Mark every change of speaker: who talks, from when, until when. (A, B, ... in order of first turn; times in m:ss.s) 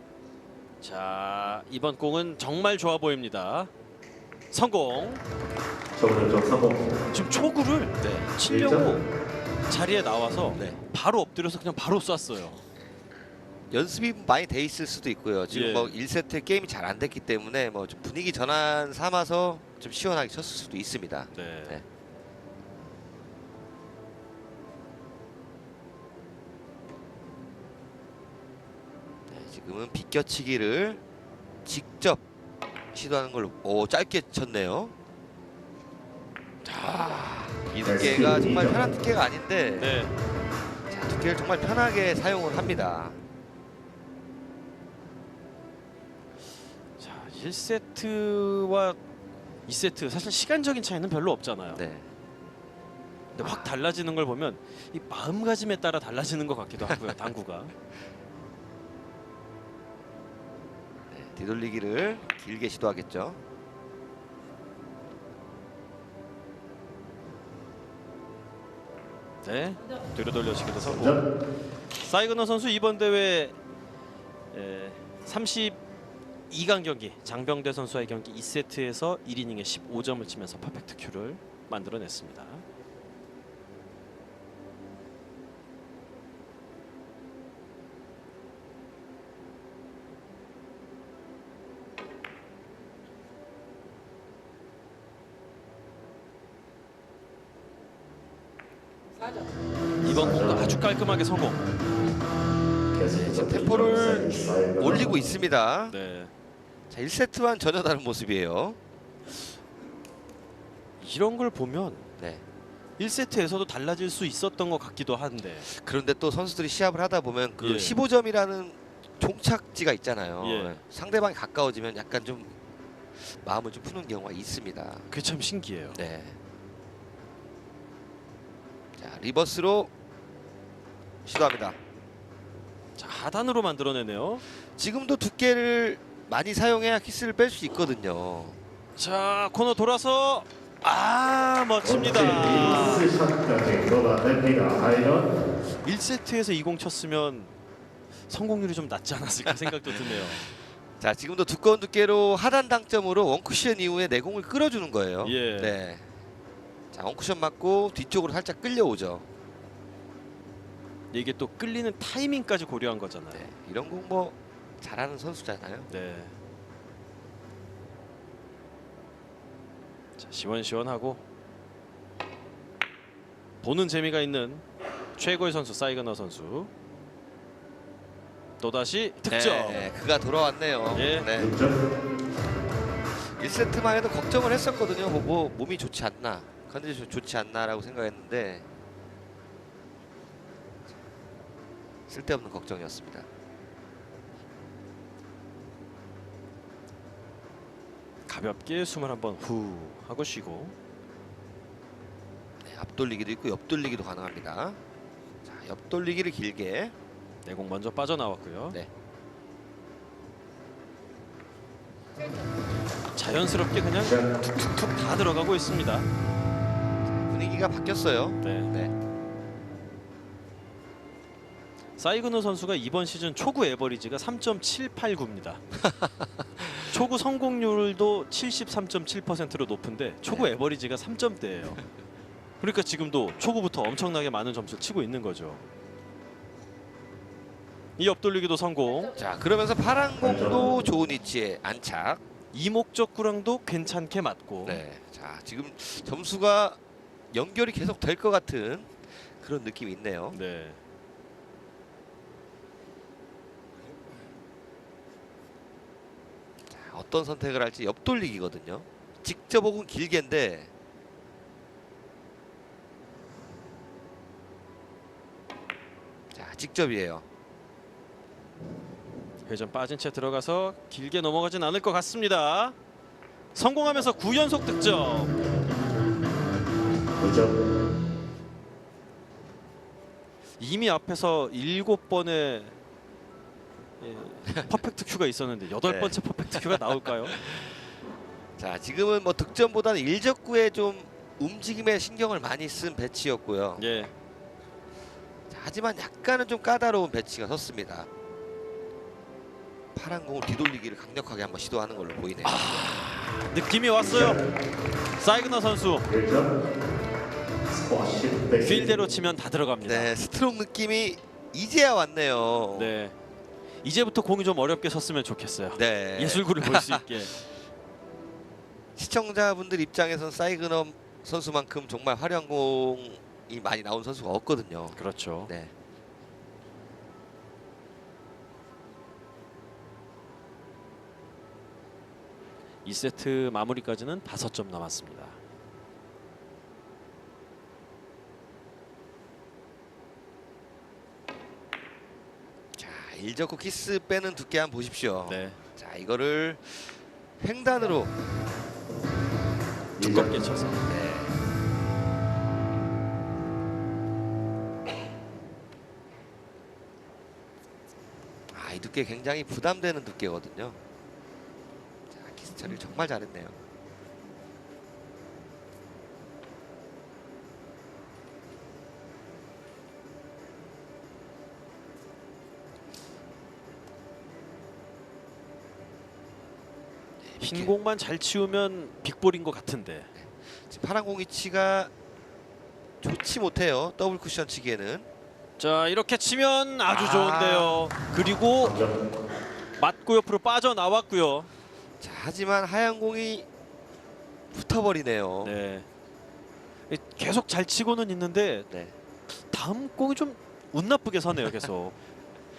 0:00.8-0:03.7 A
0:04.5-0:05.2 A
0:06.0-0:06.9 B
0:07.1-0:09.0 A
0:08.0-0:08.4 C
0:08.4-0:09.0 B
0:09.7-0:12.6 A
0:13.7-0:21.8 C
0:15.5-0:16.0 A
0:21.3-0:21.8 A
0:29.3-0:31.0 C
0:31.6-0:32.2 C
0:32.9-0:35.0 C
0:36.6-0:40.0 C
0:37.8-0:38.9 B
0:39.8-0:40.1 A
0:40.9-0:43.2 C
0:47.0-0:49.0 A
0:49.7-0:51.8 A
0:51.7-0:52.1 C
0:53.4-0:57.7 A
0:53.4-0:53.7 C
1:01.1-1:03.4 C
1:09.4-1:11.2 A
1:10.8-1:11.3 B
1:11.9-1:13.6 A
1:14.5-1:15.8 A
1:16.5-1:22.6 A
1:40.0-1:41.6 A
1:40.0-1:40.7 B
1:42.9-1:45.3 B
1:43.0-1:46.0 C
1:45.9-1:46.3 A
1:46.9-1:48.8 C
1:51.0-1:52.1 A
1:52.2-1:52.4 C
1:53.0-1:55.7 A
1:55.6-2:02.5 C
1:57.6-1:58.0 A
2:00.4-2:00.8 A
2:03.2-2:05.1 C
2:05.1-2:06.0 A
2:05.9-2:06.4 C
2:09.0-2:09.9 C
2:11.2-2:11.8 C
2:13.0-2:14.4 A
2:14.7-2:18.6 C
2:19.0-2:23.1 A
2:21.8-2:25.4 B
2:22.5-2:23.0 C
2:25.8-2:27.5 A
2:28.3-2:30.4 A
2:29.6-2:30.4 C
2:31.0-2:36.0 C
2:35.2-2:35.8 A
2:36.9-2:39.3 C
2:41.1-2:43.5 A
2:43.3-2:45.9 C
2:45.9-2:46.4 A
2:50.2-2:51.2 A
2:53.6-2:54.6 A
2:55.2-2:56.7 A
2:58.6-2:59.9 A
2:59.3-3:01.6 C
3:00.9-3:01.3 A
3:01.3-3:01.8 B
3:03.2-3:08.7 C
3:12.1-3:13.3 C
3:18.3-3:20.8 A
3:22.6-3:24.8 C
3:25.4-3:27.0 C
3:27.4-3:28.8 A
3:33.2-3:36.1 A
3:37.1-3:38.9 C
3:38.4-3:38.7 A
3:42.0-3:45.6 A
3:45.8-3:46.9 C
3:46.9-3:51.8 A
3:50.3-3:50.5 C
3:52.6-3:55.6 A
3:58.0-3:59.1 A
3:59.2-4:02.2 C
4:00.2-4:00.8 B
4:02.5-4:04.8 A
4:04.6-4:06.8 C
4:07.3-4:10.4 C
4:10.3-4:10.8 A
4:16.7-4:20.7 C
4:26.3-4:27.2 C
4:29.5-4:32.8 A
4:33.5-4:35.3 A
4:37.2-4:37.6 B
4:40.6-4:42.8 A
4:44.0-4:47.4 A
4:44.5-4:44.8 C
4:45.8-4:46.8 C
4:47.4-4:47.7 C
4:48.6-4:53.9 C
4:53.8-4:54.1 A
4:55.5-4:58.1 C
5:00.0-5:02.9 C
5:02.4-5:04.4 A
5:05.2-5:06.1 A
5:06.1-5:06.6 B
5:07.7-5:08.9 B
5:08.6-5:10.2 A
5:09.8-5:12.9 C
5:12.7-5:13.2 A
5:13.8-5:17.3 A
5:15.8-5:17.4 C
5:19.0-5:25.7 C
5:25.0-5:25.5 A
5:32.8-5:35.4 A
5:42.8-5:48.2 C
5:45.3-5:45.6 A
5:50.0-5:50.5 B
5:50.0-5:50.8 A
5:50.8-5:51.4 C
5:58.5-6:00.8 C
6:02.1-6:03.6 C
6:17.2-6:17.7 C
6:17.4-6:20.1 A
6:20.2-6:21.9 C
6:23.0-6:25.1 C
6:25.6-6:28.8 A
6:26.9-6:27.8 C
6:28.6-6:29.0 B
6:29.8-6:31.5 A
6:32.0-6:33.5 C
6:34.5-6:35.5 C
6:35.4-6:35.9 A
6:36.9-6:38.7 A
6:39.3-6:42.0 A